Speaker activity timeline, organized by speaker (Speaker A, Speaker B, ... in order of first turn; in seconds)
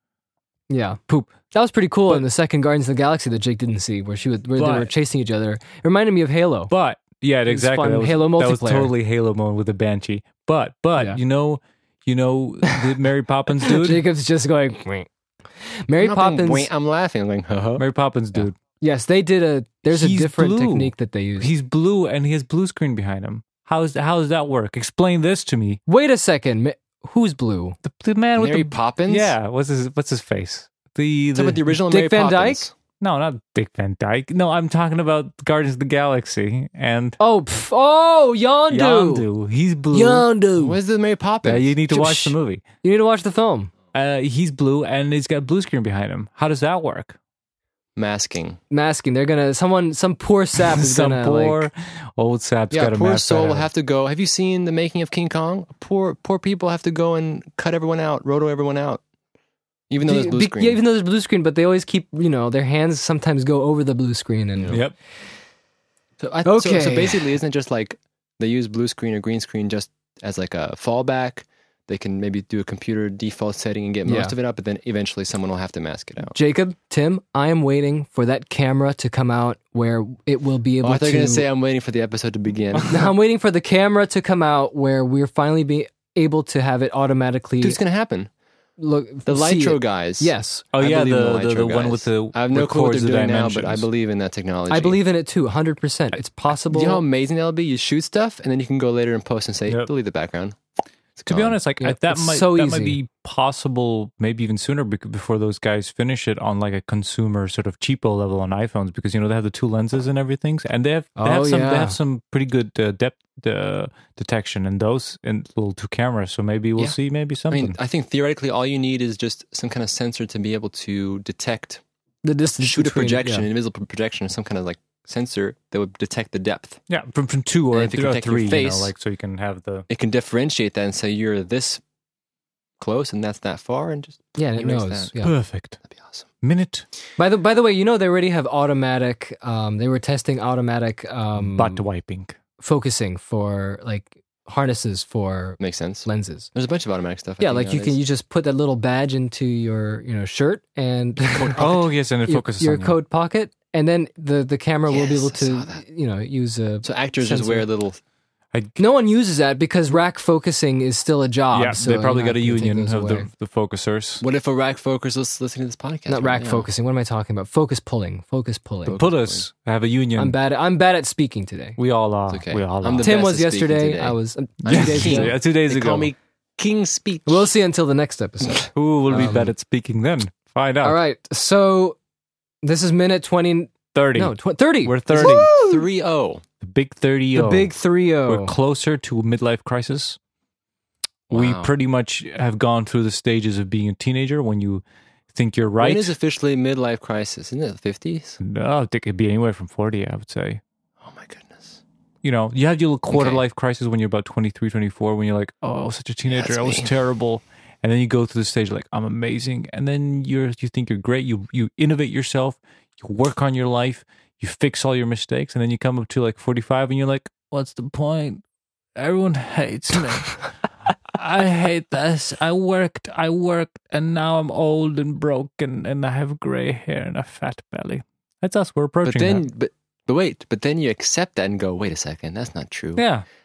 Speaker A: 0.7-6.7, 7.5-8.9, 13.6-15.1, 15.8-16.7, 18.8-21.5, 25.9-27.8, 31.9-32.6, 37.2-39.2, 39.9-40.8, 41.9-43.7, 48.7-51.7, 60.0-64.8, 66.4-67.3, 74.0-74.3, 76.3-81.5, 82.9-87.8, 88.8-90.6, 94.7-97.0, 101.8-103.0, 111.2-112.0, 122.2-123.5, 134.4-135.3, 137.2-141.8, 142.6-146.5, 147.4-157.7, 158.8-163.3, 166.1-169.0, 170.2-171.8, 173.0-175.3, 177.2-179.5, 180.8-182.0, 182.6-185.8, 187.3-188.5
Speaker B: 4.6-4.9, 6.7-14.0, 17.8-18.5, 19.9-25.8, 27.8-31.7, 33.0-37.2, 38.7-40.3, 41.4-42.6, 43.9-47.1, 50.7-53.7, 90.7-93.8, 101.3-117.8, 126.9-129.9, 135.2-135.8, 136.4-136.8, 141.4-142.3, 151.6-153.0, 161.5-164.2, 168.9-170.3, 171.8-173.1, 174.7-176.1, 178.7-181.0, 183.9-185.5, 186.6-187.7, 188.2-190.2, 191.3-196.1, 198.4-200.6, 202.2-218.4, 219.0-229.4, 232.9-233.2
Speaker C: 16.0-17.8, 28.4-29.3, 31.3-32.7, 40.6-41.7, 48.0-48.6, 52.7-59.0, 59.9-60.8, 66.2-76.3, 80.8-83.1, 87.6-88.3, 89.2-95.0, 96.7-100.6, 101.2-101.6, 117.5-121.8, 122.6-126.8, 127.7-128.9, 129.9-131.8, 132.8-135.1, 135.8-136.2, 145.6-148.0, 151.3-151.8, 154.9-155.8, 156.8-158.0, 164.2-166.7, 168.8-169.4, 172.3-177.5, 185.1-186.4, 191.3-191.7, 195.8-198.4, 201.0-201.8, 203.1-203.4, 206.3-206.9, 229.0-233.0